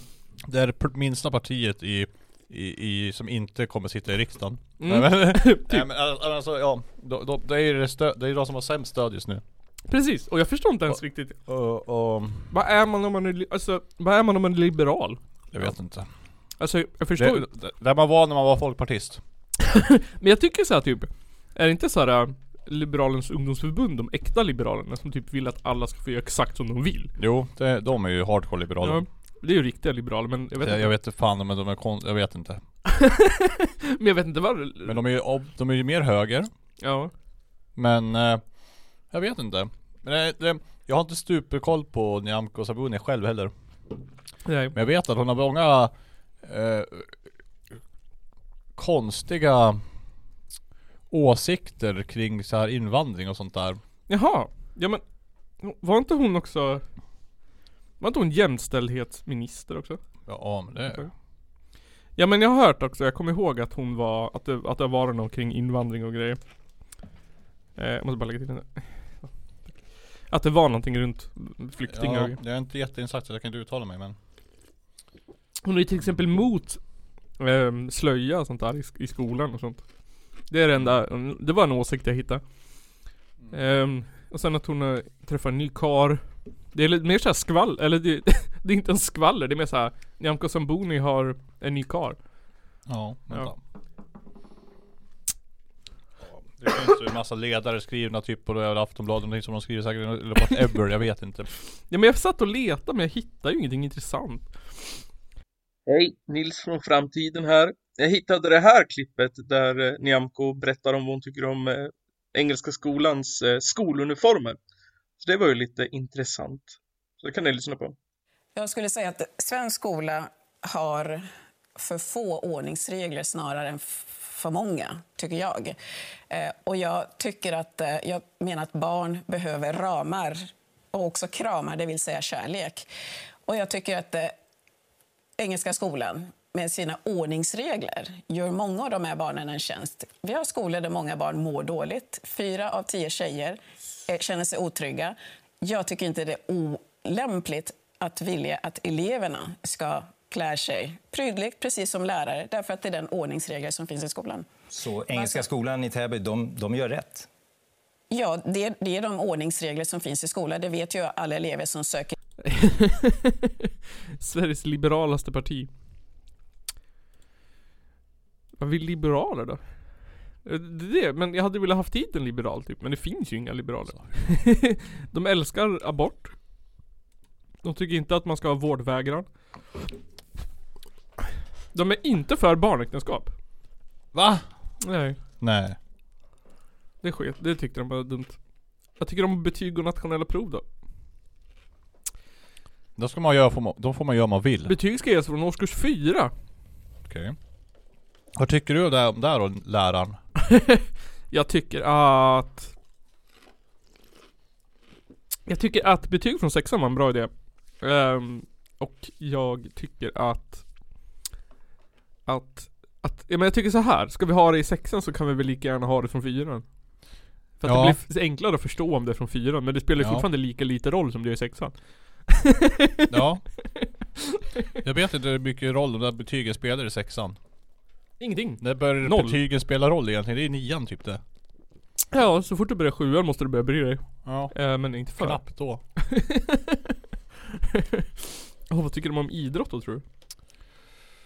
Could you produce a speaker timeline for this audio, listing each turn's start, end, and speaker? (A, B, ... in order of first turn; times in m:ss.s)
0:00.4-0:09.4 A
0:04.8-0:05.8 B
0:09.9-0:11.4 B
0:11.4-0:12.5 A
0:12.5-0:15.6 B
0:15.5-0:16.1 A
0:16.6-0:17.5 B
0:17.2-0:19.2 A
0:19.6-0:27.1 B
0:27.2-0:29.0 A
0:28.8-0:30.9 B
0:30.6-0:32.6 A
0:32.9-0:35.0 B
0:34.8-0:36.5 A
0:36.8-0:37.1 B
0:37.7-0:43.5 A
0:44.4-0:44.7 B
0:44.7-0:47.2 A
0:48.7-0:49.8 A
0:51.1-0:53.8 A
0:54.1-0:55.0 B
0:55.6-0:56.8 B
0:58.0-1:00.0 B
1:00.2-1:01.1 A
1:02.2-1:06.4 B
1:07.8-1:09.2 B
1:10.3-1:12.4 B
1:11.9-1:14.2 A
1:15.6-1:16.8 B
1:17.4-1:19.8 B
1:20.5-1:22.4 B
1:23.5-1:26.2 B
1:26.7-1:32.2 B
1:32.8-1:33.6 A
1:36.2-1:41.5 A
1:41.9-1:44.5 B
1:45.9-1:54.6 C
1:55.2-1:58.0 C
1:58.5-2:05.8 D
2:06.3-2:12.9 D
2:13.4-2:14.3 D
2:15.4-2:34.5 D
2:34.7-2:37.3 E
2:35.1-2:35.5 D
2:38.1-2:42.1 D
2:42.4-2:43.7 B
2:44.2-2:45.7 B
2:48.6-2:49.8 B
2:50.4-2:56.3 B
2:57.6-2:59.2 B
3:01.7-3:03.3 B
3:04.1-3:04.5 A
3:04.8-3:05.2 B
3:05.4-3:05.8 A
3:07.0-3:08.4 B
3:09.0-3:10.6 B
3:13.0-3:14.8 A
3:14.6-3:16.3 B
3:17.0-3:17.4 A
3:18.4-3:20.2 A
3:20.5-3:22.7 B
3:25.5-3:30.6 B
3:32.3-3:36.6 B
3:37.6-3:41.7 B
3:37.6-3:38.0 A
3:40.0-3:40.3 A
3:42.3-3:43.2 B
3:43.1-3:43.4 A
3:43.8-3:44.4 B
3:44.8-3:47.4 A
3:48.2-3:49.4 B
3:48.6-3:51.2 A
3:52.1-3:55.4 B
3:54.2-3:54.5 A
3:55.1-3:55.8 A
3:56.0-3:56.9 B
3:57.7-4:00.0 B